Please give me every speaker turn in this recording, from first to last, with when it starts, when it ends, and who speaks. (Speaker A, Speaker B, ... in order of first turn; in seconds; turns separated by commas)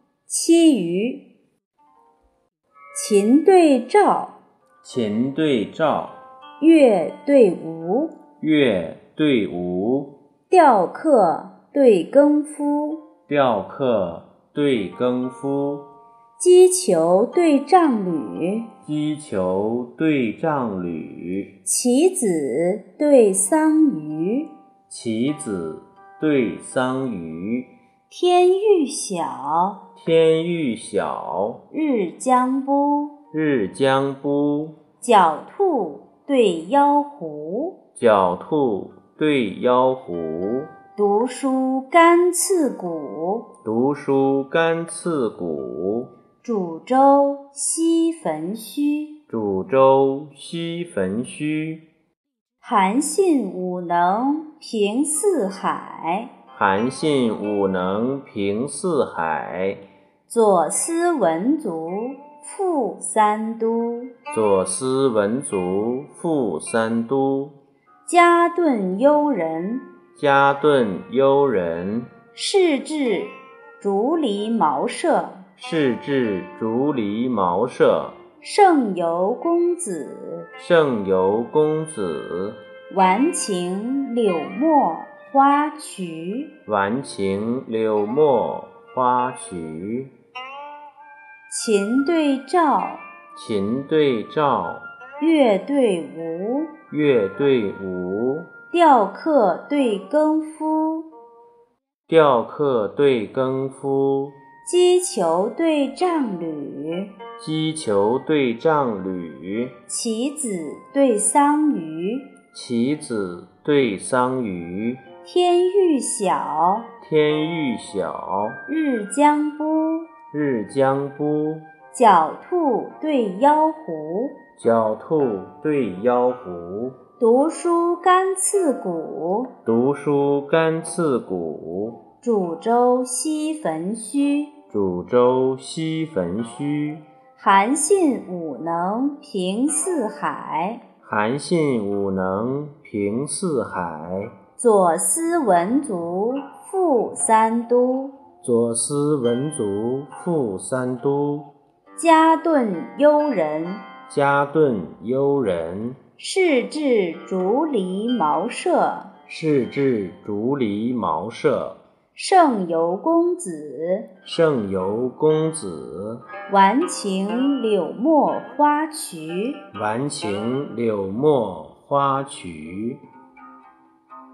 Speaker A: 0.3-1.2, Speaker A: 2.9-4.3, Speaker B: 4.8-6.2, Speaker A: 6.6-8.1, Speaker B: 8.4-10.1, Speaker A: 10.5-13.0, Speaker B: 13.3-15.8, Speaker A: 16.4-18.7, Speaker B: 18.8-21.5, Speaker A: 21.6-24.5, Speaker B: 24.9-27.7, Speaker A: 28.1-29.8, Speaker B: 30.0-31.6, Speaker A: 31.7-33.1, Speaker B: 33.3-34.8, Speaker A: 35.0-37.8, Speaker B: 38.0-40.7, Speaker A: 40.9-43.5, Speaker B: 43.6-46.1, Speaker A: 46.4-49.2, Speaker B: 49.3-51.8, Speaker A: 52.6-56.3, Speaker B: 56.5-59.8, Speaker A: 60.3-64.1, Speaker B: 64.3-67.5, Speaker A: 68.0-69.8, Speaker B: 70.2-72.1, Speaker A: 72.3-75.5, Speaker B: 75.6-78.2, Speaker A: 78.4-80.5, Speaker B: 80.6-82.6, Speaker A: 82.9-86.5, Speaker B: 86.7-90.1, Speaker A: 91.5-93.0, Speaker B: 93.3-94.8, Speaker A: 95.2-96.7, Speaker B: 96.9-98.5, Speaker A: 98.7-101.1, Speaker B: 102.1-104.3, Speaker A: 104.6-107.1, Speaker B: 107.4-109.7, Speaker A: 109.9-112.3, Speaker B: 112.5-115.0, Speaker A: 115.2-116.9, Speaker B: 117.0-118.6, Speaker A: 118.7-120.1, Speaker B: 120.3-121.7, Speaker A: 121.9-124.3, Speaker B: 124.6-127.0, Speaker A: 127.2-129.5, Speaker B: 129.7-132.0, Speaker A: 132.2-134.5, Speaker B: 134.7-137.0, Speaker A: 137.3-140.8, Speaker B: 141.0-144.3, Speaker A: 144.6-148.1, Speaker B: 148.4-151.5, Speaker A: 151.9-153.8, Speaker B: 154.1-156.0, Speaker A: 156.2-159.1, Speaker B: 159.3-161.8, Speaker A: 162.1-164.1, Speaker B: 164.2-166.2, Speaker A: 166.5-169.6, Speaker B: 169.7-173.0